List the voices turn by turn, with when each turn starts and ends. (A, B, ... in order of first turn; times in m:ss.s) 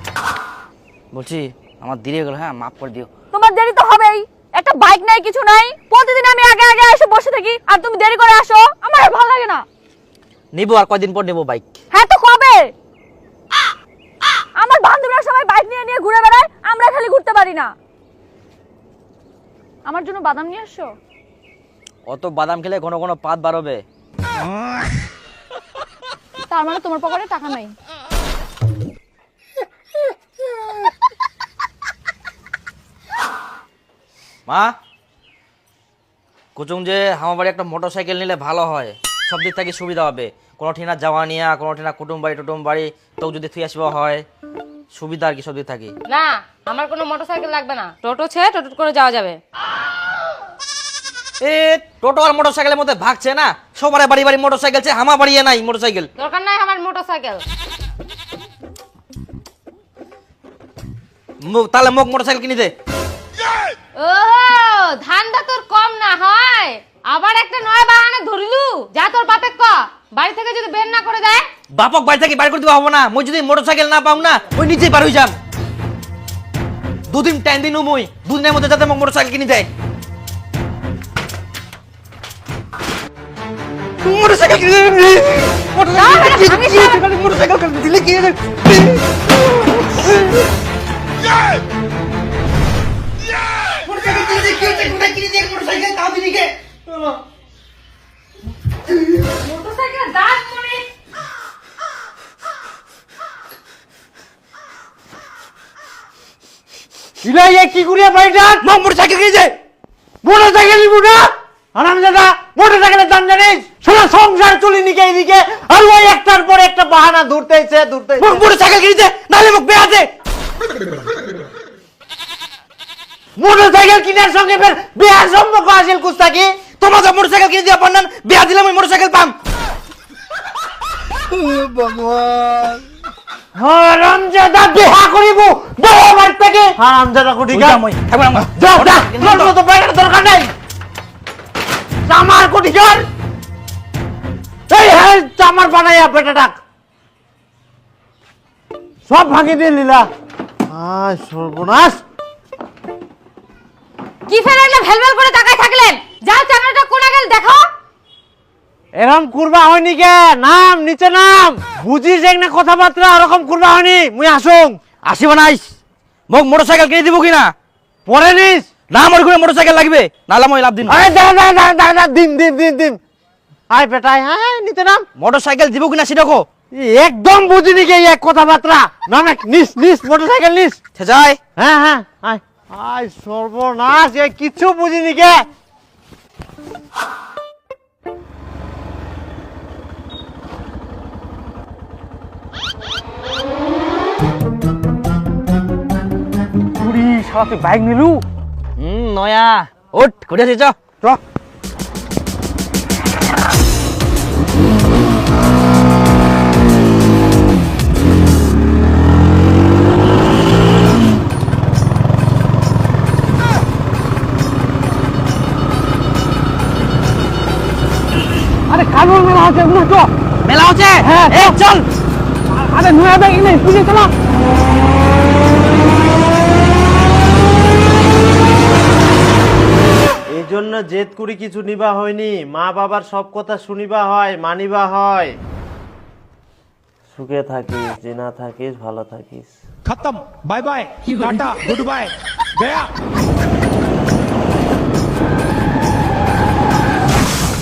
0:01.1-0:03.1 A
0:03.3-0:09.6 B
0:10.5-0:11.7 A
0:11.9-0:12.7 B
0:14.6-0:17.7 B
0:19.9-0:20.9 B
0:22.1-0:23.8 A
0:26.5-0:27.7 B
0:36.6-0:44.2 A
0:44.9-0:45.9 A
0:46.1-0:49.4 C
0:51.4-0:56.1 A
0:56.2-0:57.4 C
1:01.4-1:02.7 A
1:04.0-1:11.4 C
1:11.7-1:15.3 A
1:17.1-1:19.7 A
1:24.0-1:28.8 A
1:25.9-1:27.0 B
1:33.8-1:36.5 A
1:39.2-1:40.8 C
1:47.2-1:48.6 D
1:48.6-1:49.5 A
1:50.2-1:58.5 D
1:58.2-2:00.1 A
2:03.4-2:06.5 D
2:06.8-2:09.3 A
2:13.6-2:17.8 D
2:17.5-2:19.5 A
2:18.6-2:20.5 D
2:22.1-2:23.0 D
2:24.7-2:26.6 D
2:29.1-2:30.1 D
2:30.7-2:32.0 D
2:34.3-2:37.7 C
2:39.0-2:44.8 D
2:45.0-2:45.6 A
2:46.3-2:47.5 A
2:48.0-2:48.7 D
2:48.9-2:51.0 A
2:50.9-2:53.0 D
2:53.7-2:55.0 D
2:55.2-2:56.4 A
2:56.7-3:00.8 D
3:01.0-3:01.4 A
3:01.6-3:05.4 D
3:17.0-3:17.6 D
3:18.8-3:20.8 A
3:38.7-3:40.1 D
3:40.4-3:41.8 A
3:41.0-3:41.5 D
3:42.7-3:44.1 D
3:50.3-3:55.3 D
3:57.1-3:59.5 D
3:59.9-4:02.9 E